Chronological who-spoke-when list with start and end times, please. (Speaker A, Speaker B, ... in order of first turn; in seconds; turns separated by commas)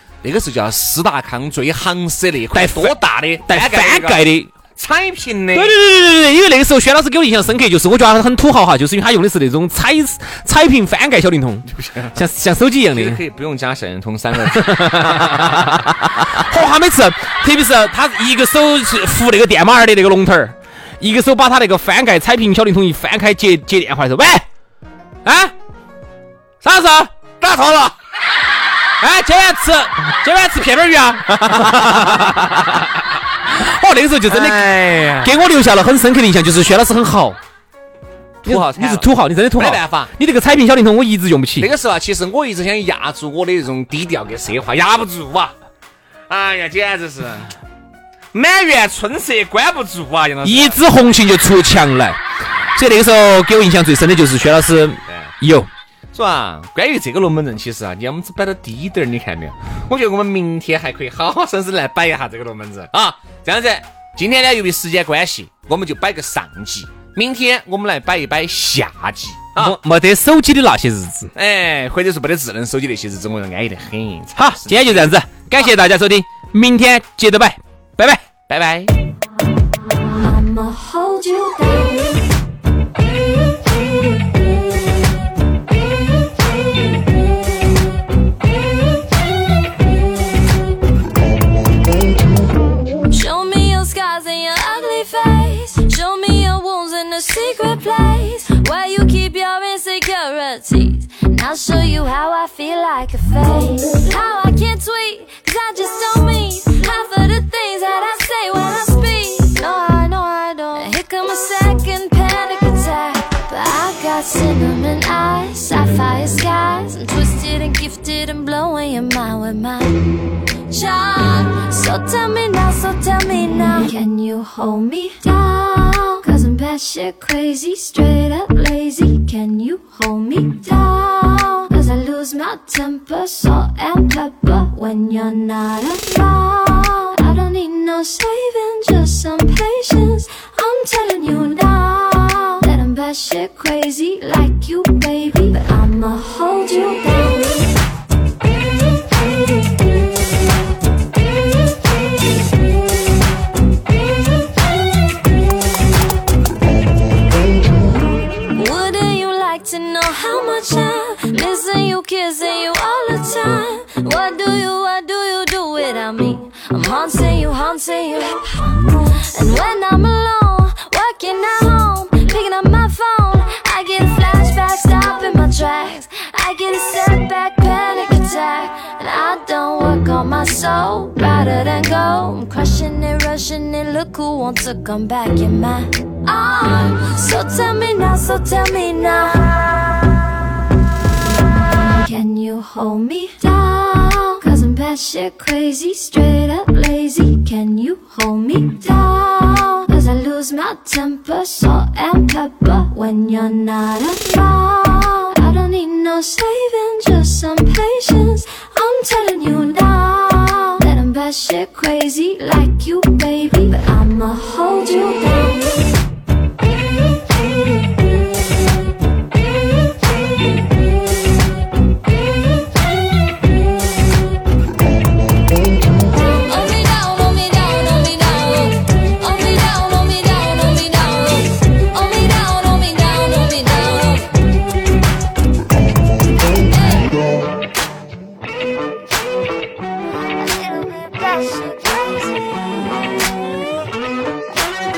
Speaker A: 0.2-4.2, Speaker B: 2.5-4.5, Speaker A: 4.8-5.8, Speaker B: 5.5-13.2, Speaker A: 11.7-12.2, Speaker A: 12.9-15.9, Speaker B: 14.5-24.5, Speaker B: 25.2-25.5, Speaker B: 26.6-27.1, Speaker A: 27.4-27.9, Speaker B: 29.0-32.9, Speaker A: 31.5-32.2, Speaker B: 33.5-34.7, Speaker A: 34.3-35.3, Speaker B: 35.2-37.4, Speaker A: 38.4-40.1, Speaker B: 38.5-41.7, Speaker A: 41.6-45.5, Speaker A: 46.3-47.5, Speaker A: 48.3-50.8, Speaker B: 50.4-52.2, Speaker B: 52.8-55.7, Speaker A: 55.1-55.3, Speaker A: 56.1-69.8, Speaker B: 69.6-71.3, Speaker A: 71.3-75.1, Speaker B: 74.4-78.3, Speaker A: 78.5-78.9, Speaker C: 79.7-82.3, Speaker C: 93.1-120.1, Speaker C: 120.7-147.7, Speaker C: 158.5-189.9, Speaker C: 191.5-215.8, Speaker C: 226.2-234.5, Speaker C: 236.5-237.2, Speaker C: 241.0-242.5